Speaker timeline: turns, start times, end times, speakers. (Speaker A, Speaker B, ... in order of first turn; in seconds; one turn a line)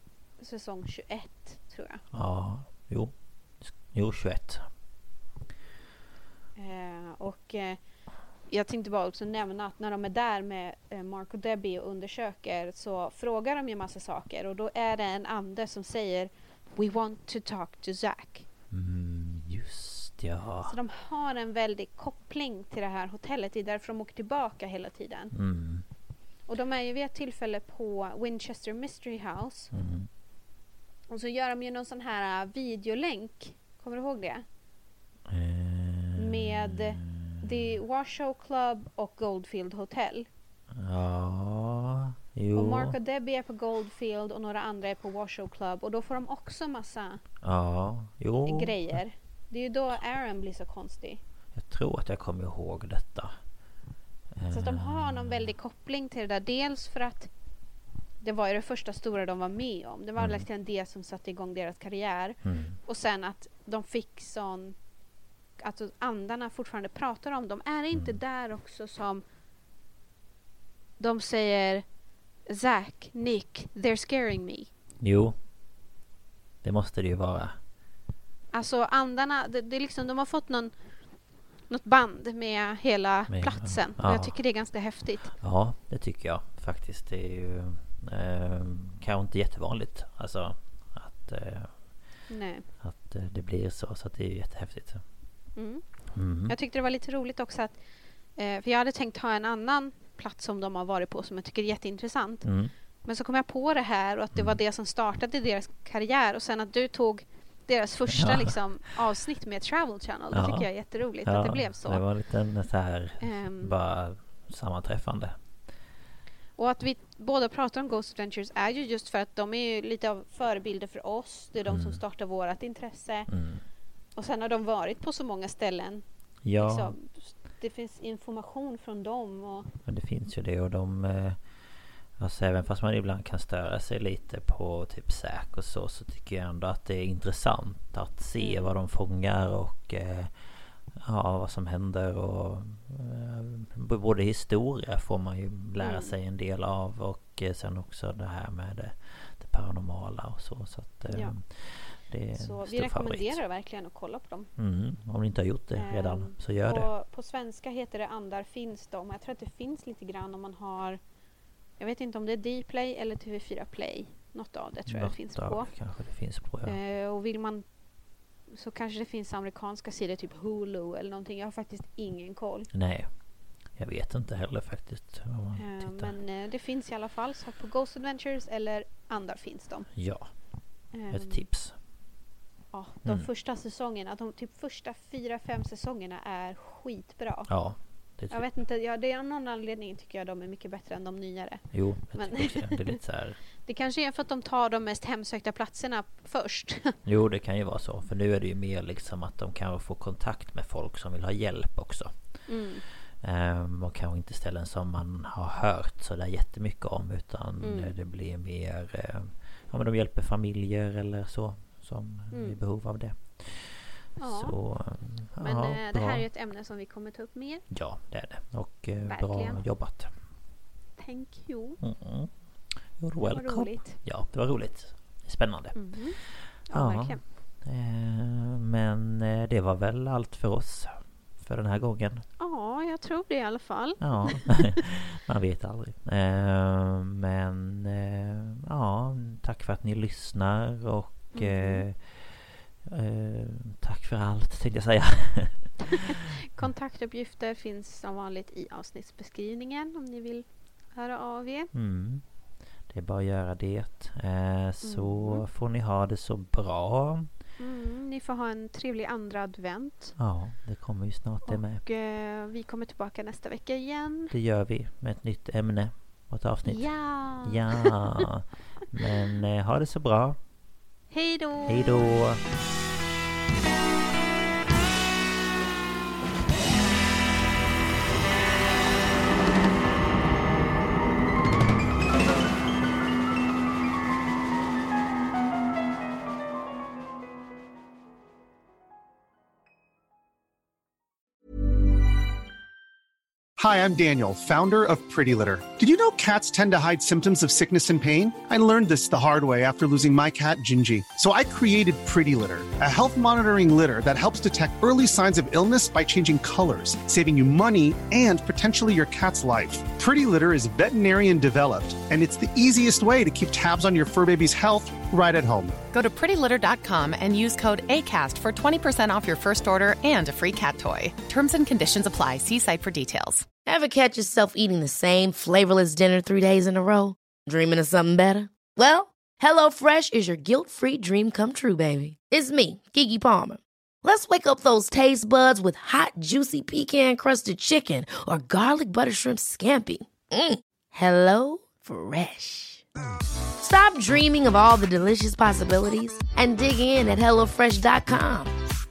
Speaker A: 0.4-2.0
Speaker B: 2.1-4.7
Speaker A: 6.6-7.8
Speaker A: 8.5-18.4
Speaker B: 18.7-20.7
Speaker A: 20.6-25.3
Speaker B: 25.3-25.8
Speaker A: 26.5-29.7
Speaker B: 29.7-30.1
Speaker A: 31.1-34.4
Speaker B: 35.3-37.7
Speaker A: 36.2-40.3
Speaker B: 40.7-42.9
Speaker A: 42.5-47.2
Speaker B: 47.4-49.0
Speaker A: 48.5-51.2
Speaker B: 51.5-53.4
Speaker B: 54.3-55.5
Speaker A: 54.5-57.3
Speaker A: 58.2-64.7
Speaker B: 60.2-60.5
Speaker B: 62.4-62.8
Speaker A: 65.6-69.2
Speaker B: 67.9-68.2
Speaker A: 71.0-71.8
Speaker A: 72.5-74.7
Speaker B: 75.0-75.3
Speaker B: 76.6-77.6
Speaker A: 78.5-80.7
Speaker A: 81.7-85.3
Speaker B: 83.3-84.3
Speaker B: 85.4-91.8
Speaker A: 92.3-92.7
Speaker B: 92.8-95.0
Speaker A: 95.5-95.8
Speaker B: 96.1-96.5
Speaker A: 96.5-97.8
Speaker A: 98.4-102.5
Speaker B: 102.4-102.7
Speaker A: 103.0-112.0
Speaker B: 104.3-104.6
Speaker B: 108.1-108.5
Speaker B: 110.3-110.7
Speaker B: 111.2-115.3
Speaker A: 113.2-113.7
Speaker A: 116.6-123.3
Speaker B: 121.6-122.0
Speaker B: 123.3-123.6
Speaker A: 124.2-126.0
Speaker B: 126.4-127.0
Speaker A: 126.6-129.7
Speaker B: 129.8-131.4
Speaker B: 132.2-140.3
Speaker A: 138.4-138.8
Speaker B: 140.9-153.4
Speaker A: 145.8-146.1
Speaker A: 152.3-154.5
Speaker B: 154.6-156.9
Speaker A: 155.8-161.0
Speaker A: 161.8-165.7
Speaker B: 164.8-166.8
Speaker A: 166.6-167.6
Speaker A: 168.5-172.7
Speaker B: 172.7-173.1
Speaker B: 173.8-176.1
Speaker A: 175.6-179.9
Speaker B: 179.9-180.3
Speaker A: 180.9-181.4
Speaker B: 181.1-181.8
Speaker A: 182.7-187.5
Speaker B: 183.0-183.3
Speaker B: 187.5-188.6
Speaker A: 188.3-192.9
Speaker B: 191.7-193.4
Speaker A: 193.6-197.0
Speaker B: 197.0-202.2
Speaker A: 202.5-202.8
Speaker B: 203.2-216.2
Speaker A: 207.6-207.9
Speaker A: 212.3-212.6
Speaker A: 214.2-214.6
Speaker A: 215.4-217.6
Speaker B: 217.7-220.1
Speaker A: 219.0-219.6
Speaker A: 221.0-221.8
Speaker B: 221.8-222.3
Speaker B: 223.0-232.2
Speaker A: 223.3-224.0
Speaker A: 225.7-227.2
Speaker A: 232.4-234.7
Speaker B: 234.0-246.7
Speaker A: 241.3-241.8
Speaker A: 245.9-251.7
Speaker B: 251.7-252.2
Speaker B: 252.9-257.3
Speaker A: 254.8-255.4
Speaker A: 257.6-260.1
Speaker B: 260.2-261.8
Speaker A: 261.4-264.3
Speaker B: 264.3-270.4
Speaker A: 266.6-268.2
Speaker A: 271.1-272.0
Speaker B: 271.6-272.4
Speaker C: 293.6-315.7
Speaker D: 315.9-323.4
Speaker E: 323.6-342.8
Speaker E: 343.6-348.5